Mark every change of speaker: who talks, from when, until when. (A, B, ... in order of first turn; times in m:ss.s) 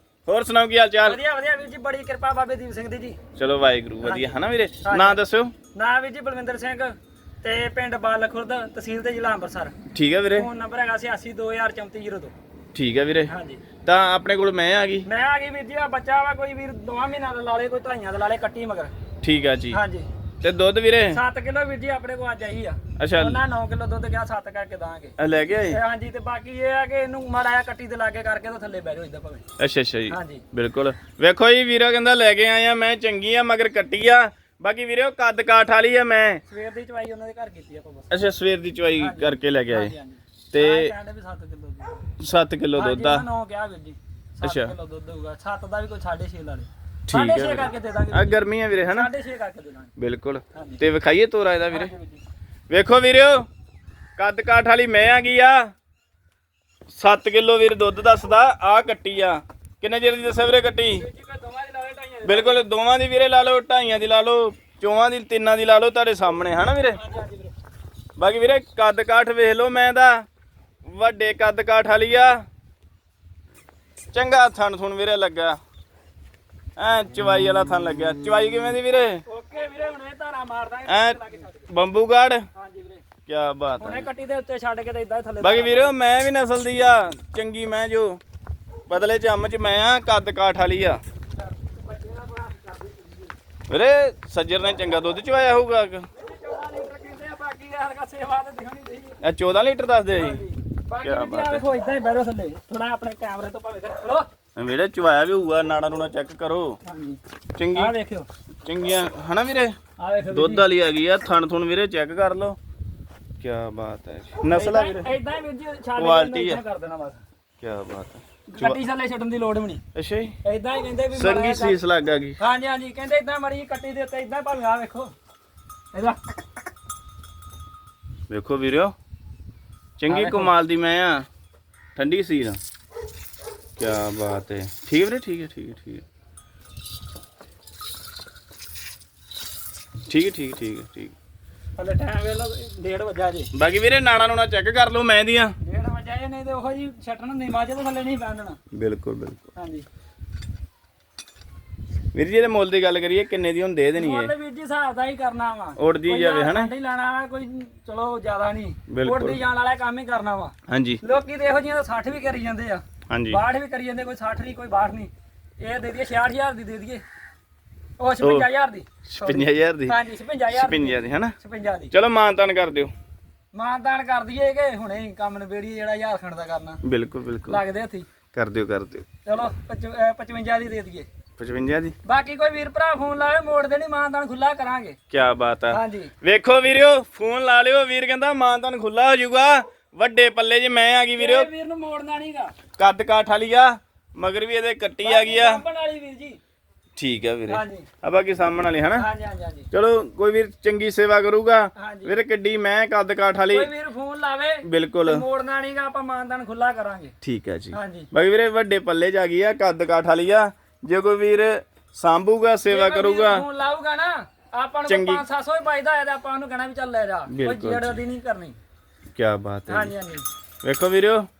0:00.2-0:01.2 A
0:01.0-0:03.2 B
0:03.4-0:05.5 A
0:04.0-0:05.2 B
0:05.7-0:09.7 B
0:09.9-0:10.5 A
0:10.3-0:12.3 B
0:12.7-0:13.3 A
0:13.3-0:13.6 B
0:13.8-0:15.1 A
0:15.0-0:18.9 B
0:19.2-0:19.8 A
0:19.7-0:20.1 B
0:20.4-0:21.2 A
0:21.1-0:25.1 B
0:23.0-0:23.4 A
0:25.2-0:25.8 A
0:25.7-0:29.4 B
0:29.6-0:36.4 A
0:30.1-0:30.4 B
0:36.5-0:38.2 B
0:38.1-0:39.9 A
0:39.0-0:42.1 B
0:40.5-0:40.9 A
0:42.2-0:43.2 A
0:42.7-0:49.9 B
0:44.4-0:44.7 A
0:47.1-0:49.1 A
0:50.0-0:51.9 A
0:50.5-0:50.8 B
0:51.7-0:52.2 B
0:52.7-0:53.4 A
0:54.2-0:55.7 A
0:56.9-1:01.0 A
1:01.0-1:02.6 B
1:02.2-1:07.0 A
1:07.0-1:07.5 B
1:08.2-1:10.2 A
1:10.8-1:12.4 A
1:14.1-1:15.6 A
1:16.8-1:19.2 A
1:19.2-1:21.7 B
1:20.9-1:22.4 A
1:22.5-1:23.0 B
1:23.2-1:24.1 A
1:23.8-1:25.9 B
1:25.4-1:28.2 A
1:28.9-1:31.0 A
1:31.4-1:33.3 B
1:33.7-1:36.1 A
1:36.2-1:39.2 B
1:39.2-1:40.4 A
1:40.1-1:44.3 B
1:41.0-1:41.6 A
1:44.5-1:46.8 A
1:46.8-1:47.2 B
1:47.6-1:47.9 A
1:47.7-1:48.3 B
1:48.6-1:49.8 A
1:50.0-1:50.7 B
1:50.3-1:52.6 A
1:53.4-1:55.1 A
1:54.5-1:57.2 B
1:56.0-1:56.6 A
1:57.6-1:58.8 A
1:58.5-1:59.8 B
1:59.9-2:00.3 A
2:00.4-2:01.8 B
2:01.1-2:02.4 A
2:02.4-2:05.1 B
2:05.9-2:06.3 B
2:08.3-2:08.9 A
2:10.0-2:11.2 A
2:10.1-2:10.5 B
2:12.0-2:12.6 A
2:13.8-2:16.0 A
2:20.1-2:21.1 A
2:21.8-2:23.5 B
2:23.5-2:25.5 A
2:25.6-2:28.6 B
2:28.7-2:29.4 A
2:29.6-2:29.8 B
2:32.1-2:34.3 A
2:34.0-2:47.0 B
2:35.8-2:36.7 A
2:38.9-2:39.4 A
2:40.7-2:41.0 A
2:43.1-2:43.4 A
2:48.0-2:51.9 B
2:48.2-2:48.4 A
2:49.0-2:50.0 A
2:50.5-2:51.3 A
2:51.9-2:52.9 A
2:53.5-2:56.8 B
2:56.8-2:57.6 A
2:57.5-2:58.1 B
2:58.3-2:59.0 A
2:59.2-3:01.1 B
3:01.4-3:01.9 A
3:02.0-3:05.0 B
3:05.1-3:11.5 A
3:05.7-3:06.1 B
3:11.2-3:12.5 B
3:12.8-3:15.6 A
3:15.0-3:16.4 B
3:17.0-3:19.0 A
3:17.5-3:17.9 B
3:18.9-3:19.7 B
3:19.7-3:23.7 A
3:21.8-3:22.2 B
3:23.5-3:27.1 B
3:24.6-3:25.2 A
3:27.2-3:33.4 A
3:27.7-3:28.1 B
3:32.6-3:38.6 B
3:34.9-3:35.2 A
3:37.3-3:38.0 A
3:39.2-3:39.9 A
3:39.7-3:40.2 B
3:40.6-3:41.3 A